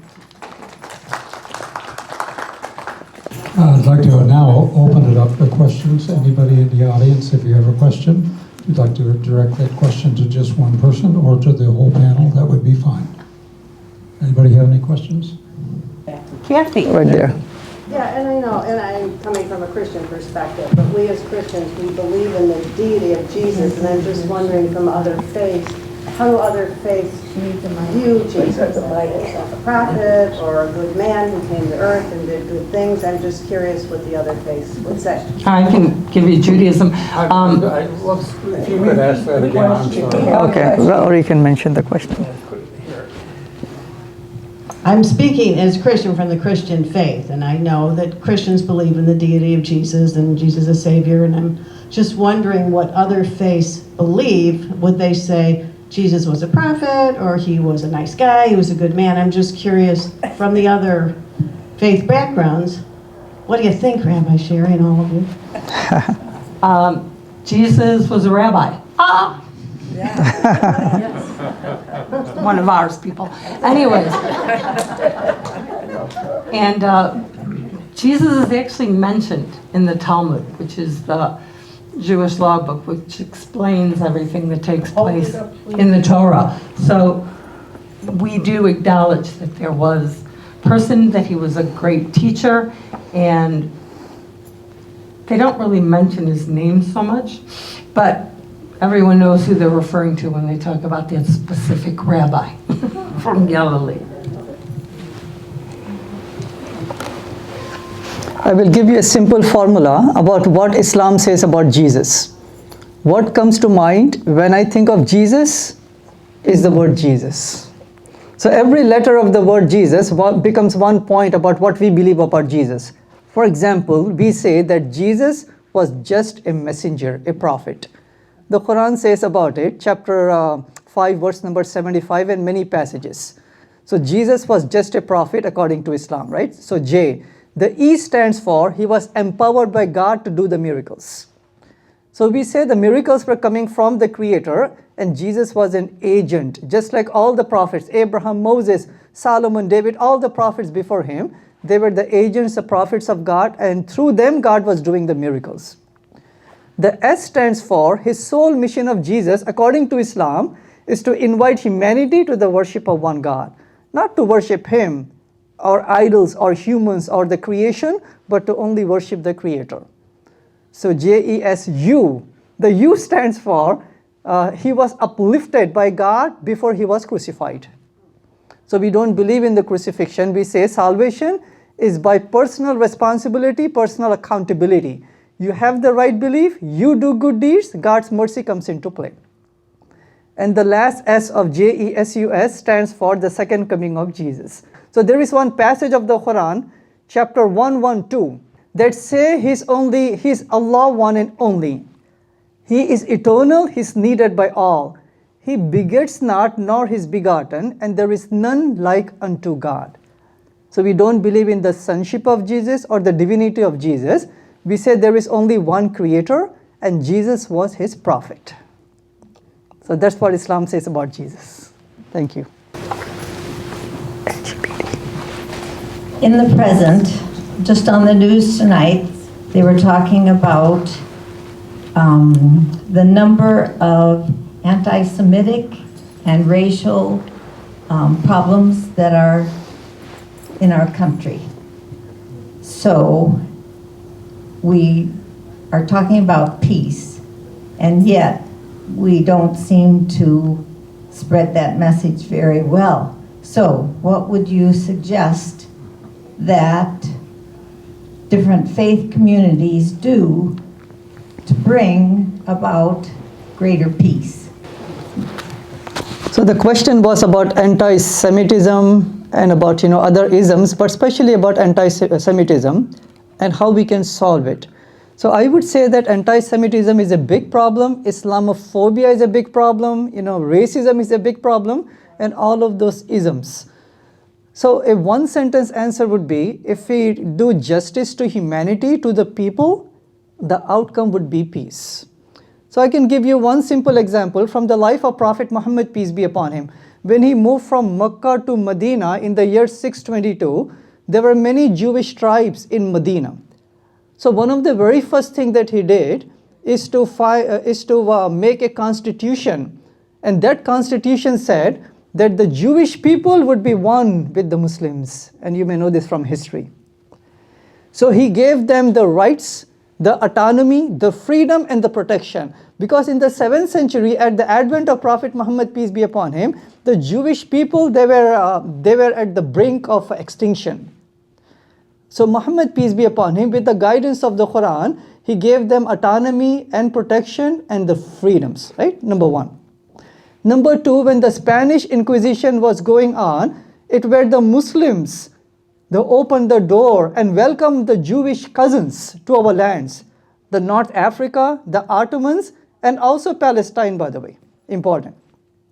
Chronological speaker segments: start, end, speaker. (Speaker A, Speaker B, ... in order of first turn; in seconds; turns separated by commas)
Speaker A: 3.5-13.1, Speaker A: 14.2-15.3, Speaker B: 16.4-16.9, Speaker C: 16.9-17.4, Speaker D: 17.9-35.4, Speaker E: 35.4-37.7, Speaker A: 37.2-40.7, Speaker C: 40.3-42.2, Speaker A: 42.4-42.8, Speaker D: 44.8-61.2, Speaker D: 61.8-62.8, Speaker D: 63.5-65.3, Speaker E: 66.6-69.4, Speaker E: 70.2-70.8, Speaker E: 72.3-74.3, Speaker E: 76.5-77.3, Speaker E: 77.9-81.4, Speaker E: 81.9-87.3, Speaker D: 85.0-85.9, Speaker E: 88.0-93.7, Speaker E: 95.2-104.1, Speaker C: 108.4-112.3, Speaker C: 113.0-115.8, Speaker C: 116.4-117.7, Speaker C: 118.4-127.9, Speaker C: 128.5-141.3, Speaker C: 142.1-155.8, Speaker C: 156.8-165.1, Speaker C: 165.6-169.8, Speaker C: 170.7-177.7, Speaker C: 178.7-189.2, Speaker C: 190.4-201.8, Speaker C: 202.7-209.9, Speaker C: 210.7-218.6, Speaker C: 219.8-222.5, Speaker B: 226.2-231.0, Speaker B: 231.9-237.3, Speaker B: 237.9-239.6, Speaker B: 240.6-241.5, Speaker B: 242.6-243.4, Speaker B: 244.6-245.1, Speaker B: 245.7-247.2, Speaker B: 247.8-255.7, Speaker B: 256.4-257.1, Speaker B: 258.3-260.6, Speaker B: 261.4-264.5, Speaker C: 266.3-283.7, Speaker C: 284.5-289.9, Speaker C: 290.4-292.1, Speaker C: 292.7-303.4, Speaker C: 304.2-316.7, Speaker C: 317.9-330.9, Speaker C: 332.1-339.5, Speaker C: 340.4-345.3, Speaker C: 345.9-355.1